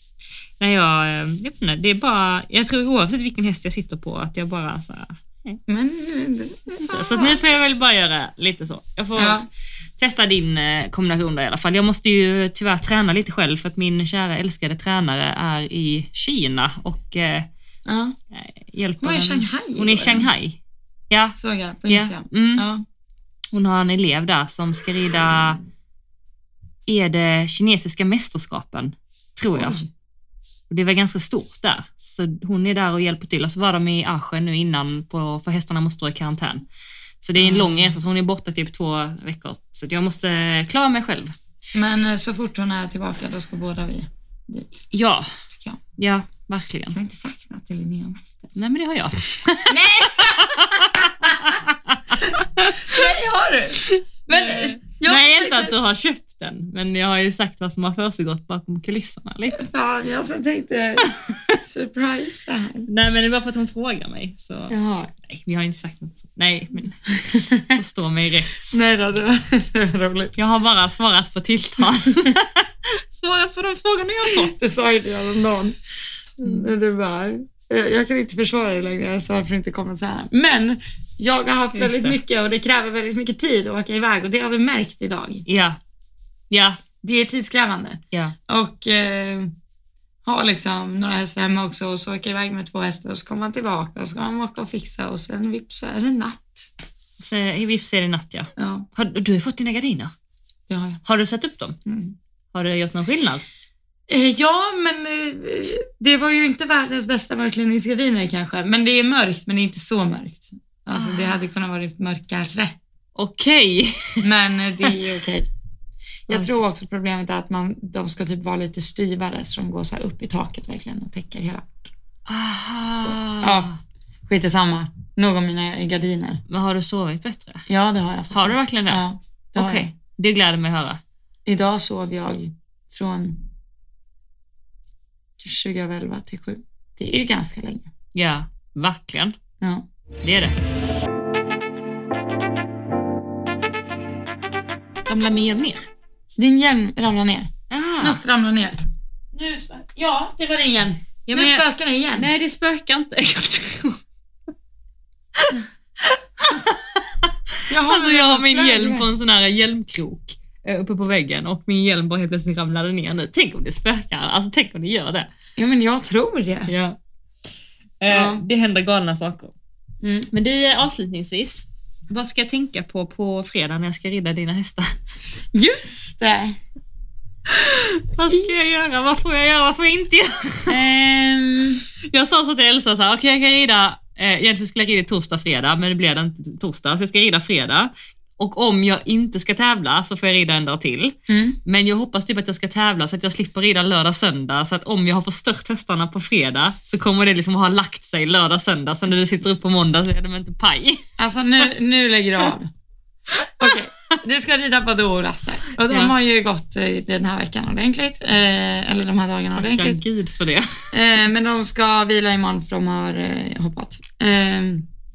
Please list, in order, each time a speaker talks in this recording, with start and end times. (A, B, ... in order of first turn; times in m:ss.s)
0:00.6-0:05.6 A
0:05.7-0:07.4 B
0:06.8-0:09.4 A
0:09.2-0:09.4 B
0:10.0-0:17.5 A
0:17.8-0:18.2 B
0:18.3-0:20.6 A
0:19.0-0:20.3 B
0:21.1-0:21.4 A
0:21.3-0:22.8 B
0:21.9-0:22.7 A
0:23.5-0:25.6 A
0:26.9-0:29.8 A
0:29.5-0:29.9 B
0:30.7-0:36.6 A
0:37.2-0:41.3 A
0:37.4-0:37.9 B
0:41.7-0:44.8 B
0:44.9-0:45.4 A
0:45.5-0:45.8 B
0:46.0-0:47.0 A
0:46.9-0:48.5 B
0:48.5-0:53.0 A
0:49.7-0:51.6 B
0:52.2-0:55.7 B
0:53.8-0:59.6 A
0:59.5-1:02.9 B
1:01.0-1:01.6 A
1:02.9-1:08.8 A
1:04.7-1:05.1 B
1:07.3-1:07.7 B
1:08.7-1:10.3 B
1:10.4-1:14.5 A
1:14.2-1:15.8 B
1:16.4-1:25.4 B
1:21.7-1:22.2 A
1:25.4-1:25.8 A
1:26.5-1:26.8 A
1:27.0-1:29.5 B
1:30.2-1:36.7 B
1:37.2-1:40.1 A
1:38.6-1:38.9 B
1:40.7-1:41.0 B
1:41.0-1:41.8 A
1:41.8-1:42.1 B
1:42.5-1:43.4 A
1:44.1-1:52.8 B
1:51.0-1:51.3 A
1:53.2-1:54.2 A
1:54.2-1:55.5 B
1:56.3-2:01.7 B
2:02.3-2:03.8 A
2:03.0-2:03.7 B
2:04.3-2:06.4 B
2:06.5-2:07.6 A
2:07.7-2:09.9 B
2:08.3-2:09.0 A
2:09.6-2:11.0 A
2:11.4-2:13.4 B
2:15.4-2:17.9 B
2:18.1-2:19.3 A
2:19.6-2:19.9 B
2:20.2-2:20.5 A
2:25.1-2:25.9 A
2:26.4-2:28.8 B
2:27.7-2:28.2 A
2:29.3-2:32.3 B
2:31.2-2:31.6 A
2:32.2-2:34.0 A
2:35.4-2:45.3 A
2:37.7-2:39.1 B
2:45.6-2:46.7 B
2:46.7-2:47.0 A
2:48.0-2:49.5 A
2:48.1-2:48.4 B
2:50.0-2:50.3 B
2:50.3-2:55.0 A
2:55.5-2:56.6 B
2:57.5-3:00.8 A
3:00.7-3:01.8 B
3:02.0-3:21.0 A
3:11.3-3:11.6 B
3:21.2-3:22.7 B
3:23.4-3:23.8 A
3:23.6-3:30.0 B
3:25.9-3:26.1 A
3:29.5-3:30.9 A
3:30.9-3:34.9 B